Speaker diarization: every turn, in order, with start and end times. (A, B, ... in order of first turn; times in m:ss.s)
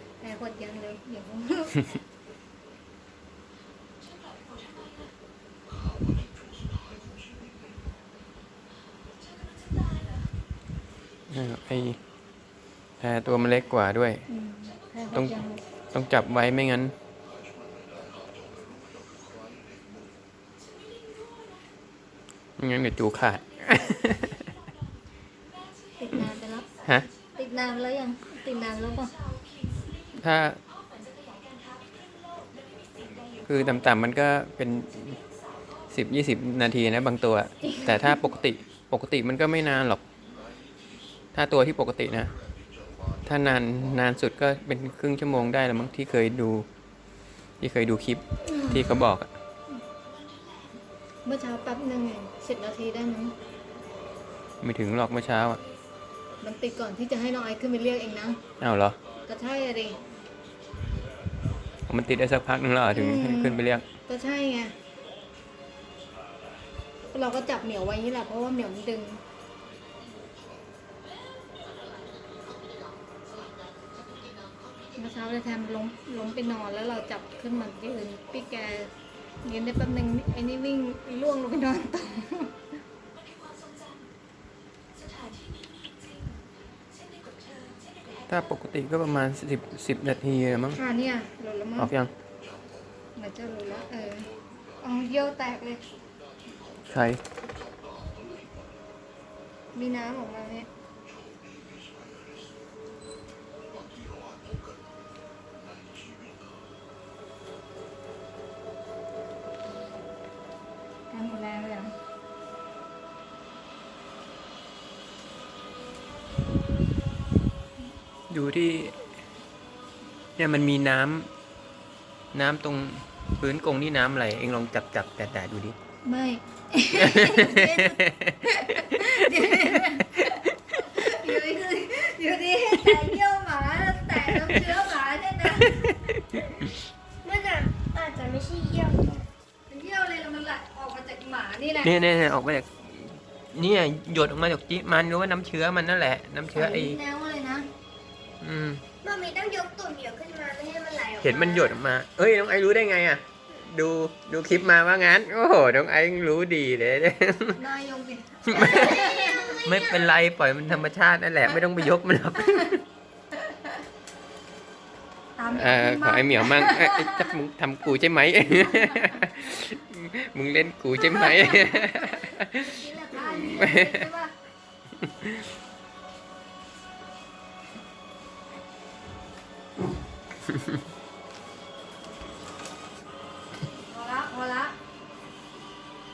0:00.2-0:01.9 A
0:11.3-0:12.0 B
0:13.0-0:14.3 B
0:14.3-0:15.6 A
0:15.1-0:15.4 B
0:15.9-0:16.9 B
0:22.6-0:24.4 B
0:26.0-0:26.7 A
0:27.4-0:29.1 A
0:30.2-0:30.6 B
0:33.5-0:35.2 B
0:35.9-0:40.0 B
0:37.6-0:38.2 A
0:41.3-0:42.3 B
0:43.2-0:46.7 B
0:47.6-0:49.3 B
0:48.4-0:49.0 A
0:51.2-0:53.4 A
0:54.6-0:55.6 B
0:56.4-0:58.4 A
0:58.6-0:59.0 B
0:59.2-1:00.0 A
1:01.9-1:03.8 B
1:02.9-1:04.8 A
1:07.1-1:09.2 A
1:15.0-1:18.9 A
1:19.4-1:22.5 A
1:28.3-1:30.8 B
1:30.8-1:31.9 A
1:31.8-1:32.1 B
1:33.2-1:35.8 A
1:36.8-1:37.2 B
1:39.7-1:40.7 A
1:51.1-1:52.0 A
1:58.3-1:59.0 B
2:00.4-2:01.3 B
2:02.3-2:05.8 B
2:06.0-2:15.9 A
2:07.0-2:09.1 B
2:15.8-2:16.4 B
2:17.2-2:19.3 C
2:19.7-2:21.9 A
2:21.8-2:27.0 B
2:26.5-2:27.7 A
2:28.4-2:28.8 B
2:29.0-2:31.8 C
2:31.2-2:37.6 B
2:37.6-2:39.6 A
2:38.5-2:39.1 B
2:38.8-2:39.8 C
2:39.6-2:42.8 B
2:45.4-2:47.3 A
2:45.5-2:52.9 B
2:48.6-2:49.2 A
2:51.0-2:51.9 A
2:52.6-2:54.3 A
2:53.5-2:54.1 B
2:55.0-2:55.4 B
3:03.8-3:04.8 A